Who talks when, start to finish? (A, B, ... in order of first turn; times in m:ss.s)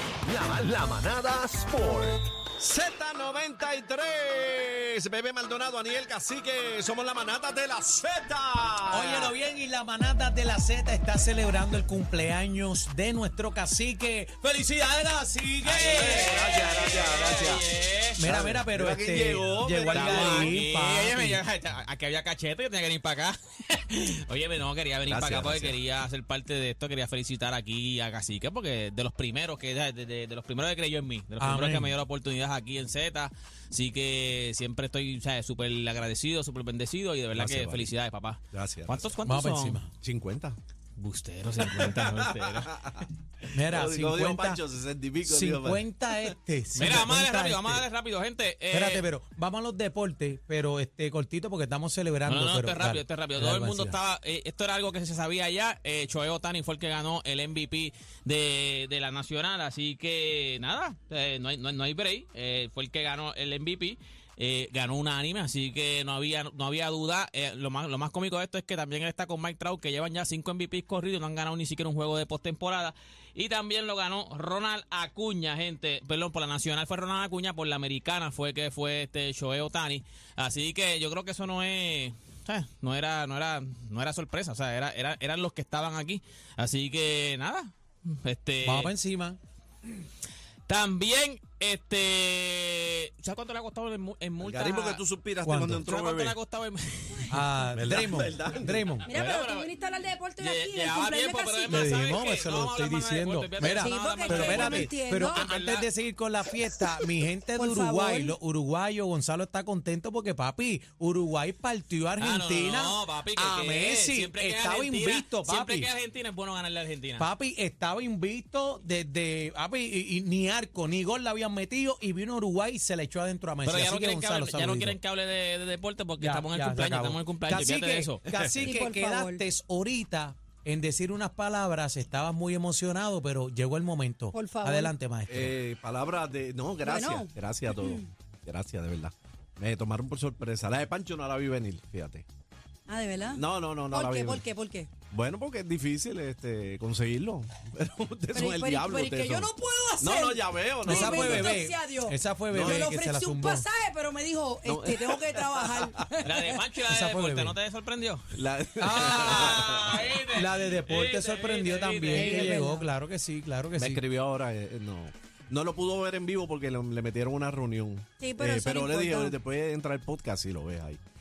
0:00.2-0:02.2 A
0:02.6-0:09.3 B
0:08.9-0:16.2 C
0:15.6-0:17.6 B
0:15.6-0:18.2 D
0:18.2-0:21.4 C
0:18.2-0:20.6 B
0:19.8-0:39.8 D
0:25.0-0:25.8 B
0:31.4-0:32.0 C
0:37.3-0:37.9 B
0:38.5-0:39.1 B
0:39.2-0:39.9 C
0:40.0-0:40.6 B
0:41.0-0:42.7 D
0:41.5-0:46.3 B
0:43.5-0:44.6 C
0:45.2-0:47.8 C
0:46.7-0:49.0 D
0:48.7-0:54.0 C
0:52.2-1:28.9 D
1:28.6-1:29.4 C
1:30.7-1:35.0 D
1:34.4-1:36.4 B
1:35.4-1:35.9 C
1:35.8-1:37.4 D
1:37.3-1:39.1 C
1:37.7-1:39.3 B
1:39.0-1:39.7 D
1:39.1-1:42.2 E
1:40.4-1:45.9 D
1:41.7-1:55.9 C
1:43.6-1:45.5 E
1:47.5-1:48.4 E
1:52.2-1:57.3 D
1:57.2-2:05.0 C
2:03.6-2:08.2 D
2:06.2-2:15.6 C
2:08.4-2:08.7 B
2:08.6-2:09.4 E
2:14.3-2:14.9 E
2:15.3-2:22.2 B
2:16.8-2:18.0 E
2:22.9-2:24.9 E
2:23.3-2:24.4 B
2:25.1-2:31.6 B
2:28.3-2:36.6 E
2:30.8-2:33.7 C
2:32.5-2:32.9 B
2:34.6-2:35.9 B
2:36.2-2:38.2 D
2:36.9-2:37.6 C
2:38.3-2:40.2 B
2:38.8-2:39.6 C
2:38.9-2:42.5 D
2:40.3-2:44.0 C
2:42.1-2:42.9 E
2:43.8-2:51.0 B
2:48.2-2:49.4 E